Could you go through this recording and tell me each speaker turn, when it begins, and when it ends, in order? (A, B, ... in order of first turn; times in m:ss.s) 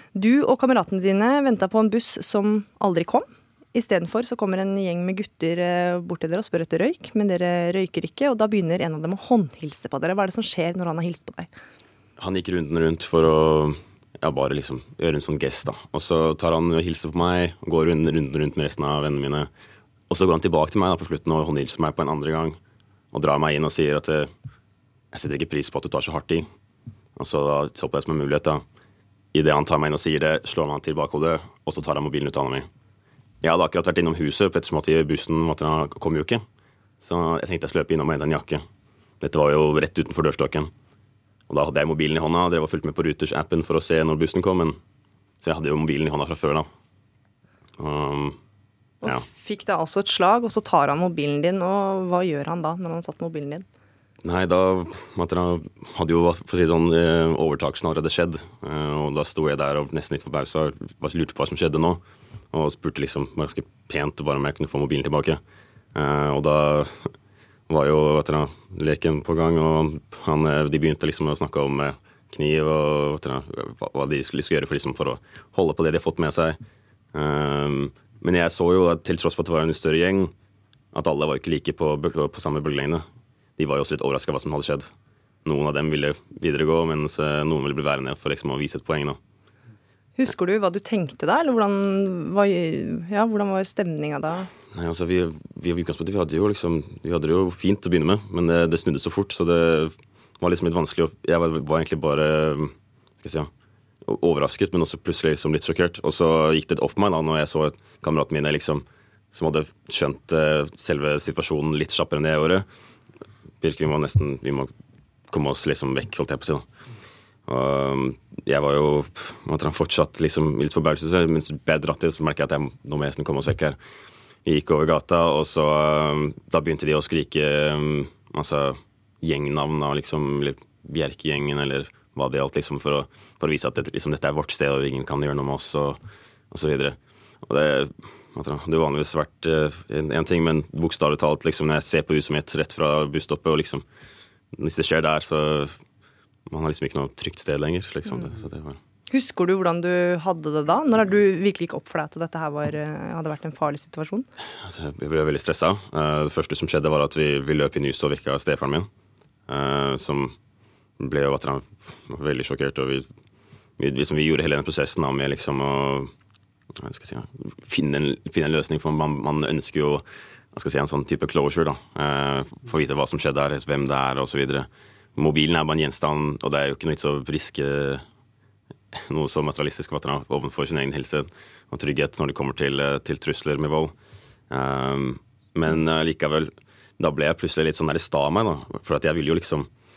0:00.2-0:11.5 A
0:12.2-0:19.5 B
0:20.1-0:22.6 B
0:23.1-0:24.3 B
0:25.1-0:26.5 B
0:27.2-0:28.6 B
0:29.3-0:32.7 B
0:33.4-0:36.4 B
0:37.0-0:38.6 B
0:39.2-0:40.7 B
0:41.5-0:44.8 B
0:45.4-0:46.7 B
0:47.8-0:48.4 B
0:49.0-0:53.7 A
0:54.2-1:02.0 B
1:02.5-1:05.4 B
1:06.0-1:07.1 B
1:07.7-1:16.6 B
1:17.1-1:20.3 B
1:20.9-1:23.0 B
1:23.6-1:24.9 B
1:25.4-1:29.2 B
1:30.2-1:34.5 A
1:34.7-1:43.5 B
1:44.0-1:52.6 B
1:53.6-1:54.7 B
1:55.3-1:56.7 B
1:57.5-2:03.8 B
2:04.4-2:16.0 B
2:16.5-2:23.8 B
2:24.5-2:25.8 B
2:26.5-2:28.8 B
2:28.1-2:28.4 A
2:29.1-2:34.3 A
2:34.6-2:38.9 B
2:39.5-2:40.3 B
2:41.0-2:43.1 B
2:43.8-2:46.1 B
2:46.8-2:58.0 B
2:59.0-3:03.9 B
3:04.5-3:09.7 B